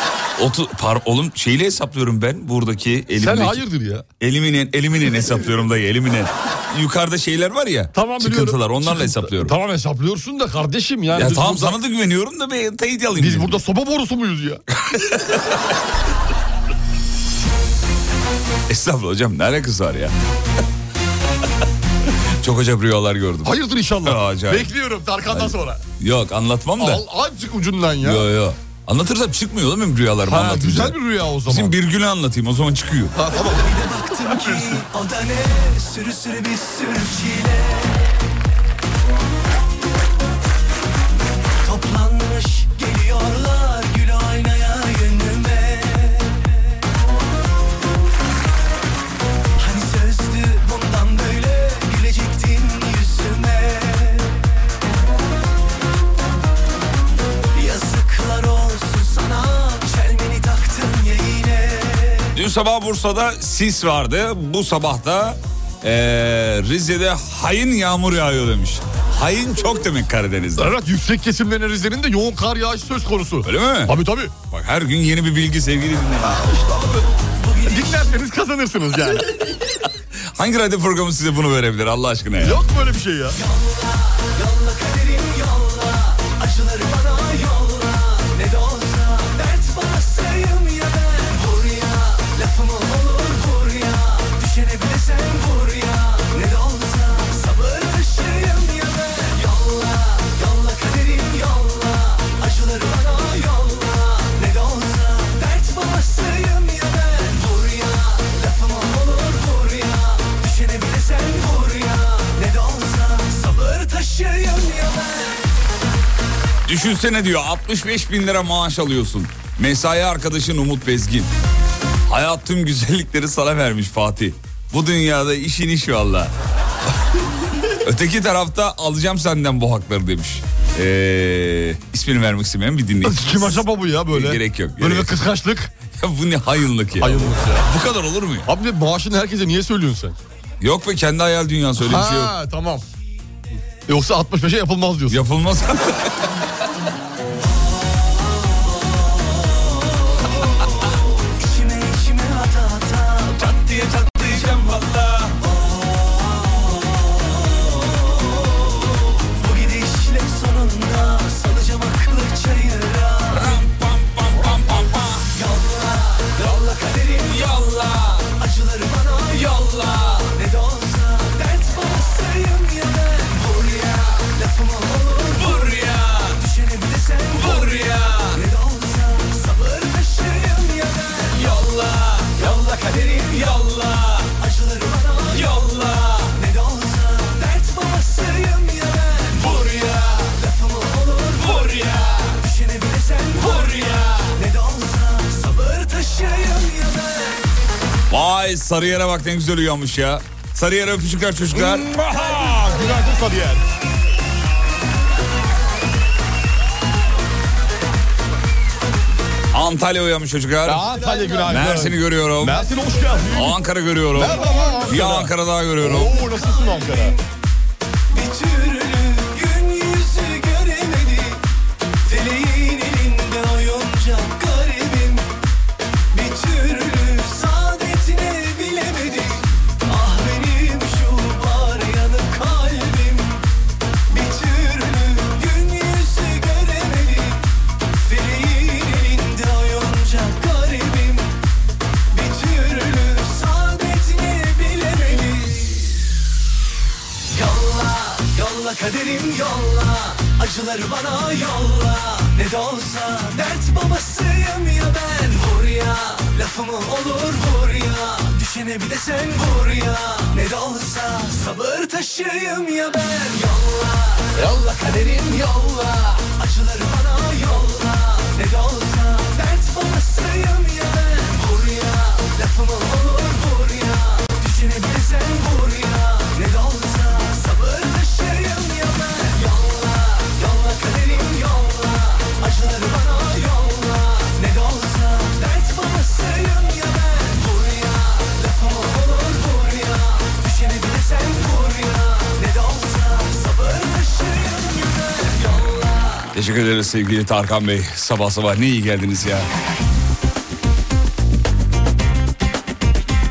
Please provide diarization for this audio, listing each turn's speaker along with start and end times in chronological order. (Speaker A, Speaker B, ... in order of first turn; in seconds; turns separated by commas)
Speaker A: 0.4-3.6, Speaker B: 3.1-4.0, Speaker A: 4.2-9.5, Speaker B: 8.0-11.8, Speaker A: 11.1-13.6, Speaker B: 13.2-14.6, Speaker A: 14.9-15.6, Speaker A: 18.7-20.1, Speaker A: 22.4-24.7, Speaker B: 23.4-24.7, Speaker A: 25.3-27.0, Speaker B: 26.8-28.2, Speaker A: 28.0-33.1, Speaker B: 30.3-31.7, Speaker B: 33.1-33.8, Speaker C: 33.3-38.0, Speaker B: 34.4-34.7, Speaker C: 41.6-46.4, Speaker C: 49.6-54.4, Speaker C: 57.5-62.3, Speaker A: 62.3-70.7, Speaker C: 70.6-73.0, Speaker B: 71.0-74.3, Speaker A: 73.4-76.4, Speaker C: 77.0-79.2, Speaker B: 77.7-78.1, Speaker A: 80.3-82.6, Speaker B: 82.4-83.3, Speaker C: 83.2-115.4, Speaker A: 116.7-121.3, Speaker A: 122.1-126.3, Speaker A: 127.7-135.1, Speaker B: 133.1-135.7, Speaker A: 135.8-138.5, Speaker B: 137.0-137.7, Speaker B: 138.5-140.2, Speaker A: 140.6-142.3, Speaker B: 141.8-142.8, Speaker B: 143.9-145.2, Speaker A: 145.1-146.2, Speaker C: 149.4-149.8, Speaker C: 151.3-154.8, Speaker A: 153.4-155.3, Speaker C: 155.4-163.4, Speaker A: 163.3-165.3, Speaker C: 165.3-167.5, Speaker A: 167.3-168.2, Speaker C: 168.3-175.7, Speaker C: 176.3-197.4, Speaker A: 177.4-178.2, Speaker A: 198.1-201.9, Speaker C: 201.5-203.6, Speaker A: 209.5-210.9, Speaker C: 210.6-213.6, Speaker B: 210.7-212.7, Speaker A: 211.4-212.6, Speaker A: 213.3-216.2, Speaker C: 214.1-215.3, Speaker B: 214.1-217.2, Speaker C: 215.8-217.2, Speaker C: 218.1-221.4, Speaker C: 222.1-225.2, Speaker C: 226.1-233.4, Speaker C: 234.1-237.4, Speaker C: 238.0-241.3, Speaker C: 242.1-246.0, Speaker C: 247.3-296.3, Speaker A: 296.3-299.5